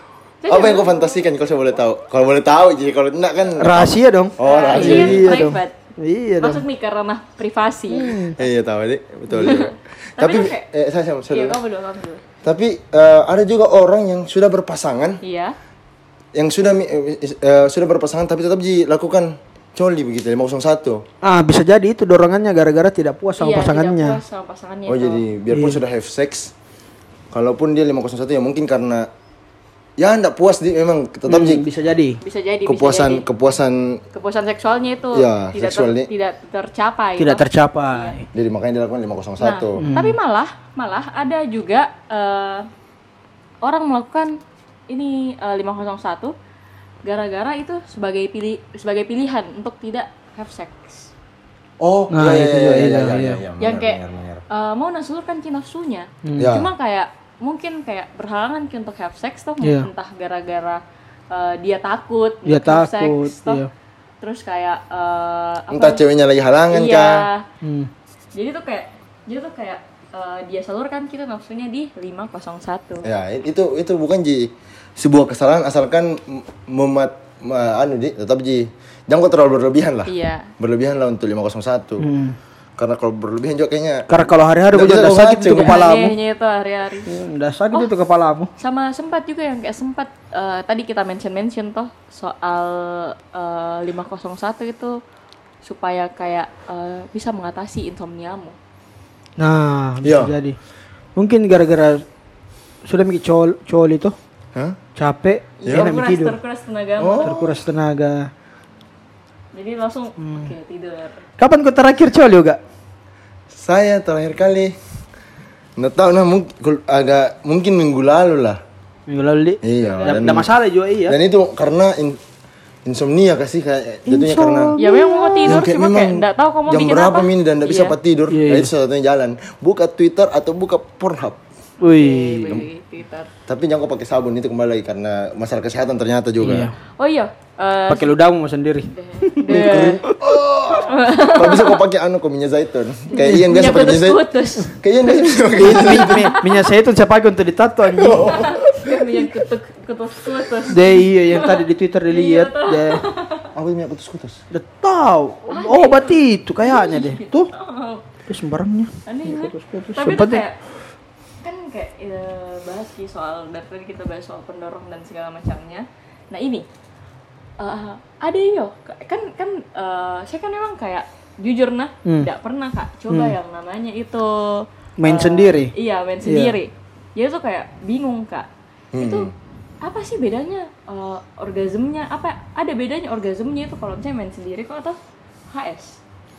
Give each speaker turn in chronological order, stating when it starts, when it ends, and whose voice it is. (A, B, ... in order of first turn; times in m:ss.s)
0:00.4-0:01.2 A
0:00.5-0:05.5 B
0:03.6-0:06.6 C
0:04.4-0:05.8 A
0:06.4-0:08.2 A
0:07.9-0:08.4 C
0:08.4-0:11.6 B
0:09.3-0:10.7 A
0:11.3-0:12.2 A
0:12.4-0:15.2 B
0:15.2-0:15.6 A
0:16.3-0:21.0 B
0:21.2-0:24.2 C
0:23.4-0:25.2 A
0:24.9-0:26.5 B
0:25.5-0:25.8 C
0:27.3-0:29.1 B
0:30.0-0:31.6 B
0:31.3-0:32.2 C
0:32.2-0:33.3 A
0:32.7-0:34.0 B
0:34.1-0:38.2 A
0:35.1-0:36.1 B
0:37.2-0:38.3 C
0:38.3-0:39.8 B
0:39.4-0:42.7 A
0:39.8-0:40.2 C
0:43.6-0:44.4 A
0:44.9-0:46.4 A
0:47.0-0:51.1 A
0:51.8-0:54.4 B
0:52.1-0:53.4 C
0:53.6-1:03.6 A
0:56.2-0:56.6 C
0:56.4-0:56.7 B
0:59.6-0:59.9 C
1:02.5-1:03.7 C
1:04.2-1:06.0 A
1:05.7-1:07.3 B
1:06.7-1:07.5 A
1:07.6-1:07.9 C
1:08.3-1:13.1 A
1:13.0-1:22.1 B
1:20.1-1:20.5 A
1:22.0-1:22.4 C
1:22.8-1:24.1 B
1:24.1-1:26.2 C
1:24.7-1:25.8 B
1:25.6-1:27.1 A
1:27.1-1:28.5 C
1:28.6-1:35.0 A
1:35.6-1:38.6 A
1:39.4-1:40.6 C
1:40.0-1:40.4 B
1:41.2-1:42.0 C
1:42.8-1:44.2 C
1:45.0-1:46.4 C
1:45.6-1:47.5 A
1:47.0-1:47.5 B
1:47.2-1:48.3 C
1:49.5-1:51.2 A
1:50.2-1:50.5 C
1:51.4-1:52.6 C
1:53.5-1:54.8 B
1:55.8-1:58.6 B
1:59.1-2:01.2 C
1:59.6-2:00.5 B
1:59.8-2:00.3 A
2:01.1-2:02.2 B
2:02.8-2:04.8 B
2:04.1-2:05.6 C
2:04.8-2:08.0 A
2:05.4-2:11.4 B
2:08.3-2:08.7 C
2:11.8-2:12.6 C
2:11.9-2:13.3 A
2:13.5-2:16.7 B
2:16.4-2:16.7 C
2:17.0-2:18.2 A
2:17.9-2:20.2 C
2:18.9-2:20.0 A
2:19.5-2:26.3 B
2:20.7-2:21.8 A
2:23.1-2:26.4 A
2:23.2-2:23.5 C
2:25.6-2:28.5 C
2:28.0-2:29.1 B
2:28.3-2:33.5 A
2:30.7-2:33.0 C
2:33.5-2:34.4 B
2:34.5-2:37.5 C
2:35.5-2:38.0 A
2:38.3-2:40.4 C
2:39.1-2:40.6 A
2:41.4-2:46.7 A
2:47.6-2:58.5 A
2:53.1-2:53.4 C
2:55.0-2:55.7 C
2:56.2-2:56.6 C
2:58.9-2:59.3 B
2:59.0-2:59.3 A
2:59.8-3:05.0 A
3:05.5-3:06.0 A